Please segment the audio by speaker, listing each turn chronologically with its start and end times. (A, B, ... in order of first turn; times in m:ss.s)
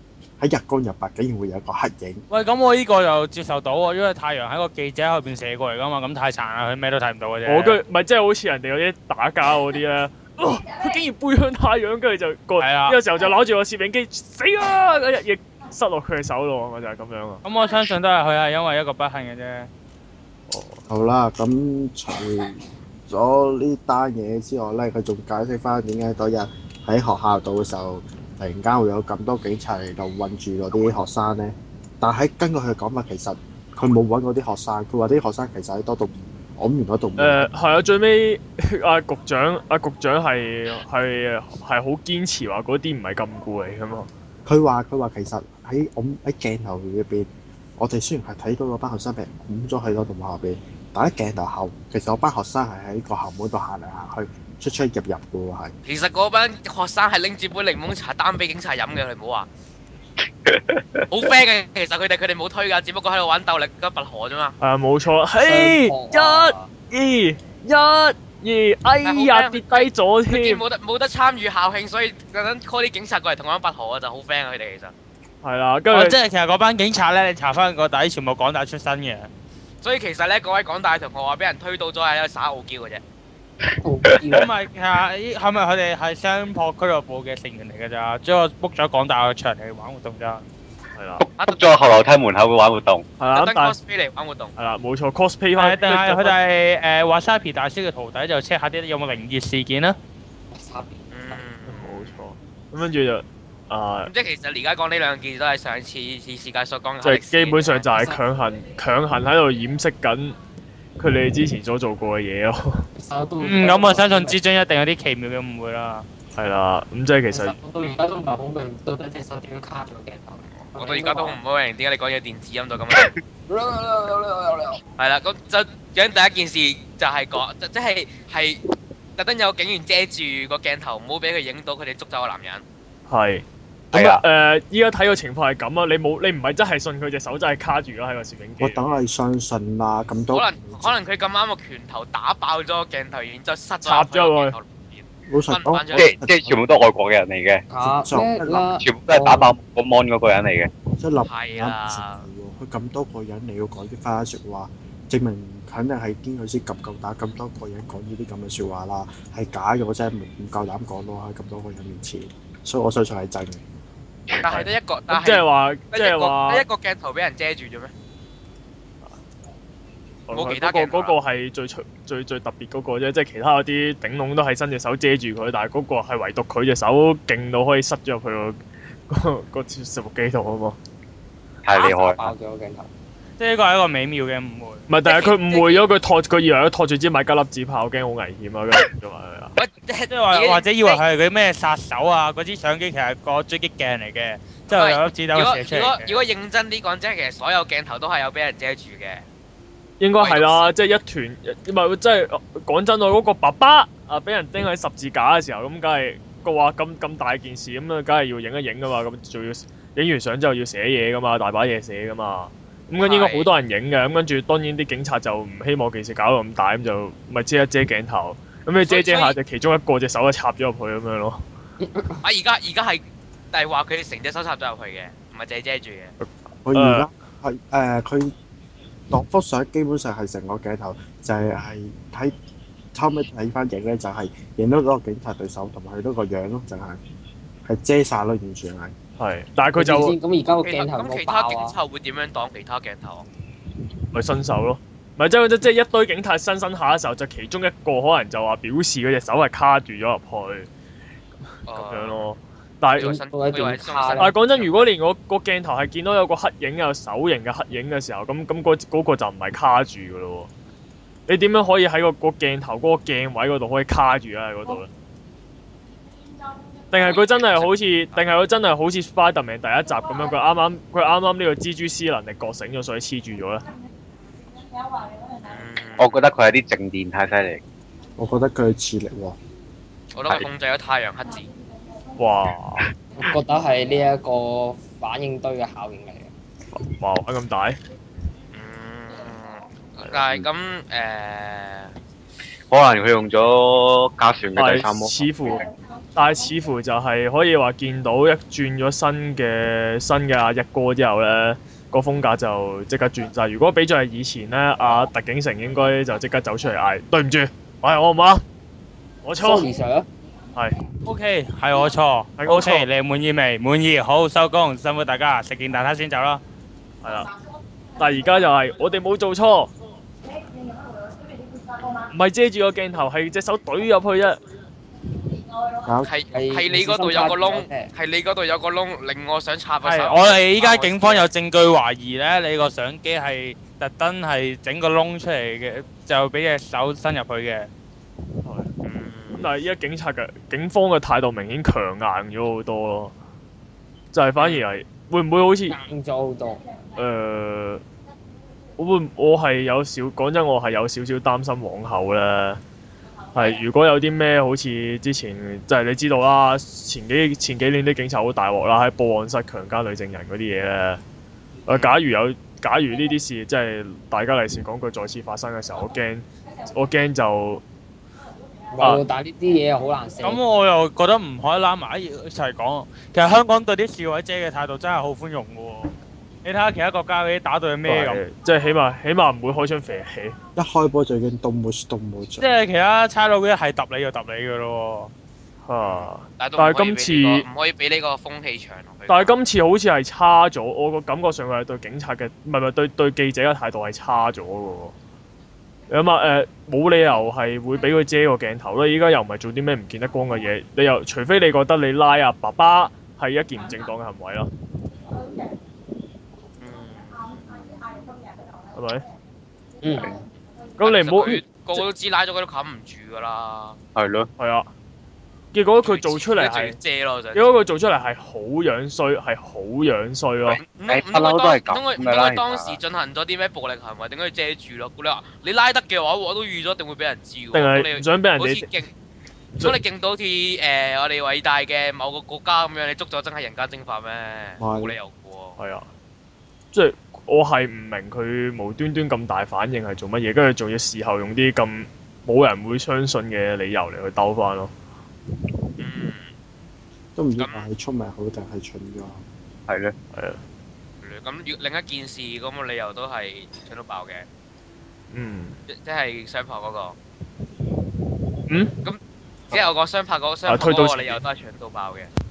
0:00.4-0:02.2 A
0:02.3-0:07.8 B
0:07.4-0:17.4 C
0:12.6-0:13.0 B
0:17.4-0:19.7 B
0:20.5-0:20.8 C
0:20.9-0:37.5 A
0:37.2-0:44.1 C
0:44.4-0:55.7 A
0:55.8-0:59.5 D
1:00.4-1:01.0 E
1:01.1-1:04.5 D
1:04.6-1:10.6 C
1:05.4-1:06.7 F
1:09.0-1:14.9 D
1:15.4-1:16.2 C
1:15.9-1:19.3 B
1:19.8-1:23.0 D
1:23.8-1:24.4 F
1:24.3-1:30.4 B
1:31.0-1:31.2 C
1:31.4-1:32.0 D
1:31.4-1:33.0 E
1:33.2-1:33.8 C
1:33.3-1:34.5 D
1:34.6-1:36.4 C
1:35.6-1:40.0 B
1:40.5-1:41.4 F
1:41.1-1:42.2 D
1:41.7-1:44.1 C
1:44.0-1:47.8 D
1:47.0-1:50.4 C
1:47.9-1:48.2 F
1:51.0-1:52.9 C
1:52.9-1:54.4 F
1:53.4-1:56.1 B
1:56.3-1:57.6 C
1:57.3-2:01.4 F
2:00.6-2:03.1 D
2:03.5-2:04.8 F
2:05.0-2:08.6 D
2:09.2-2:12.6 D
2:13.1-2:18.9 C
2:13.9-2:14.2 E
2:18.6-2:21.0 A
2:20.3-2:26.2 D
2:23.8-2:24.6 C
2:25.3-2:26.6 A
2:25.9-2:27.6 E
2:27.7-2:29.5 F
2:27.8-2:28.7 A
2:28.8-2:30.7 E
2:30.9-2:43.6 A
2:31.2-2:32.2 D
2:44.4-2:47.9 D
2:44.5-2:46.6 C
2:50.3-2:58.6 C
2:50.3-2:51.2 D
2:59.1-3:00.8 C
3:01.6-3:02.3 E
3:01.8-3:02.9 F
3:03.4-3:04.8 B
3:04.9-3:09.5 C
3:05.0-3:05.8 D
3:09.6-3:11.0 D
3:10.1-3:16.2 B
3:14.7-3:19.2 D
3:20.0-3:41.4 C
3:20.2-3:20.7 D
3:33.0-3:33.5 D
3:38.8-3:39.4 D
3:41.8-3:42.2 F
3:42.2-3:46.1 D
3:46.2-3:47.1 C
3:46.6-3:48.3 A
3:49.1-3:52.3 A
3:52.9-3:57.0 A
3:57.6-3:58.9 A
3:59.2-4:00.2 C
3:59.7-4:01.8 F
4:00.5-4:03.2 D
4:04.1-4:10.7 C
4:11.7-4:12.3 D
4:11.7-4:13.2 C
4:13.0-4:14.9 D
4:13.0-4:14.3 F
4:14.2-4:20.5 C
4:21.3-4:24.9 C
4:26.9-4:33.6 C
4:27.0-4:28.2 D
4:35.4-4:36.1 D
4:36.0-4:37.6 E
4:38.2-4:39.4 A
4:40.1-4:41.5 D
4:42.2-4:42.9 C
4:43.2-4:46.3 F
4:46.7-4:47.8 C
4:48.5-4:51.9 D
4:52.7-4:55.6 E
4:54.6-4:55.6 C
4:56.1-5:08.4 C
5:09.2-5:09.7 C
5:09.4-5:10.1 F
5:11.0-5:16.4 B
5:12.4-5:12.9 C
5:17.0-5:17.3 C
5:18.0-5:19.7 C
5:22.1-5:24.4 C
5:25.8-5:26.1 A
5:26.0-5:31.3 D
5:26.3-5:27.9 F
5:29.8-5:37.7 B
5:38.4-5:38.7 C
5:38.8-5:39.5 D
5:39.3-5:43.1 C
5:44.1-5:45.8 C
5:44.4-5:44.6 D
5:45.7-5:46.6 F
5:47.0-5:47.8 C
5:48.8-5:52.6 C
5:53.3-6:01.0 C
6:01.7-6:07.6 C
6:01.7-6:02.0 D
6:08.7-6:10.4 F
6:10.2-6:15.9 B
6:16.4-6:18.2 B
6:17.8-6:20.4 C
6:20.6-6:22.4 A
6:22.4-6:25.1 B
6:25.6-6:27.4 C
6:25.8-6:29.3 D
6:29.1-6:34.9 C
6:35.9-6:44.5 C
6:46.6-6:48.1 D
6:48.7-6:49.0 C
6:49.8-6:50.2 F
6:50.8-6:51.8 C
6:50.8-6:53.8 D
6:53.9-6:54.3 E
6:54.4-6:54.7 C
6:55.5-6:56.8 C
6:55.8-6:57.5 D
6:57.3-7:00.6 C
7:00.5-7:08.9 D
7:00.8-7:02.8 E
7:07.5-7:08.7 C
7:09.6-7:15.6 D
7:14.6-7:14.9 A
7:15.6-7:15.9 C
7:16.7-7:24.7 C
7:25.8-7:26.3 D
7:27.2-7:29.2 A
7:27.4-7:27.6 D
7:29.7-7:29.9 E
7:30.1-7:30.4 C
7:31.0-7:34.2 D
7:35.1-7:35.6 C
7:35.7-7:37.0 D
7:38.5-7:38.7 C
7:38.8-7:42.1 D
7:40.4-7:41.2 C